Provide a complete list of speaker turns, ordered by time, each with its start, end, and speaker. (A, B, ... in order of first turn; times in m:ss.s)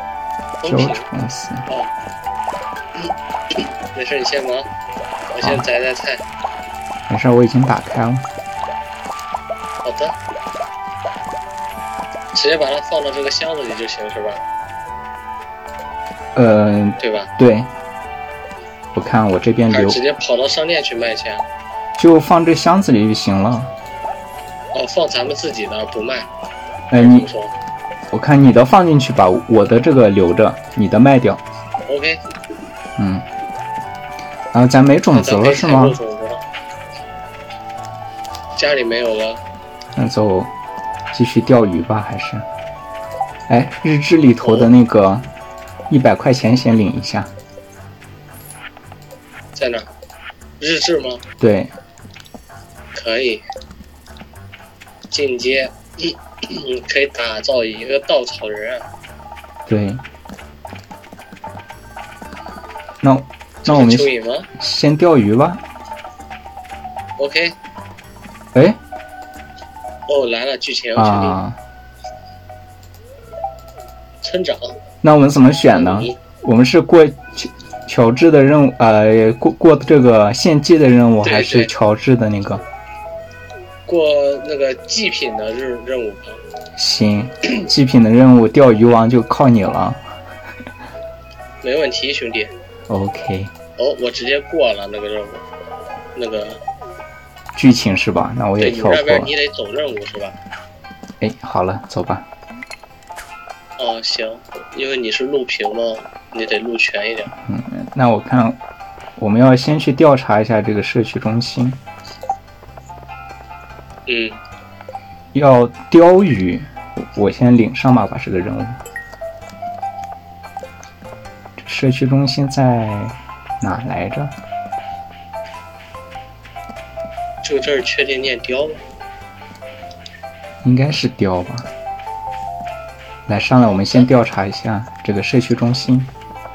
0:00.6-0:01.1 A
0:00.7-0:01.7 B
0:03.0-0:04.7 A
0:05.3-0:06.2 A
0:07.1-0:08.2 B
0:09.8-0:10.1 A
0:12.3-0:14.4 A
0:16.3-0:17.7 B
0:17.0-0:17.3 A
0:19.0-0:20.0 B
0:19.7-0:21.4 A
0:22.0-0:23.7 B
0:24.7-0:26.3 A
0:26.9-0:27.2 B
0:27.0-0:27.5 A
0:28.1-0:31.4 B
0:31.9-0:32.2 A
0:33.0-0:33.2 B
0:34.5-0:36.0 B
0:35.1-0:36.4 A
0:38.6-0:39.4 A
0:40.0-0:40.5 B
0:41.1-0:42.4 B
0:43.5-0:45.3 B
0:44.4-0:44.7 A
0:45.9-0:47.3 B
0:49.6-0:49.9 A
0:50.6-0:51.2 A
0:51.4-0:51.7 B
0:52.9-0:53.4 A
0:55.1-0:58.8 A
0:59.7-1:00.0 B
1:03.0-1:05.6 B
1:03.6-1:04.5 A
1:07.2-1:07.6 A
1:10.1-1:11.4 A
1:11.0-1:11.6 B
1:14.2-1:14.8 A
1:15.0-1:22.6 B
1:15.7-1:16.2 A
1:21.2-1:21.7 A
1:23.9-1:26.4 A
1:26.8-1:30.0 B
1:31.6-1:32.5 A
1:32.9-1:33.5 B
1:33.8-1:35.4 A
1:36.2-1:36.6 A
1:37.6-1:39.3 B
1:38.6-1:40.4 A
1:41.2-1:42.3 B
1:43.8-1:47.3 A
1:47.4-1:48.6 B
1:49.2-1:51.8 B
1:54.1-1:54.4 A
1:55.3-1:58.8 B
2:01.6-2:04.4 B
2:07.4-2:08.8 A
2:10.6-2:11.7 B
2:13.3-2:16.1 B
2:13.6-2:14.1 A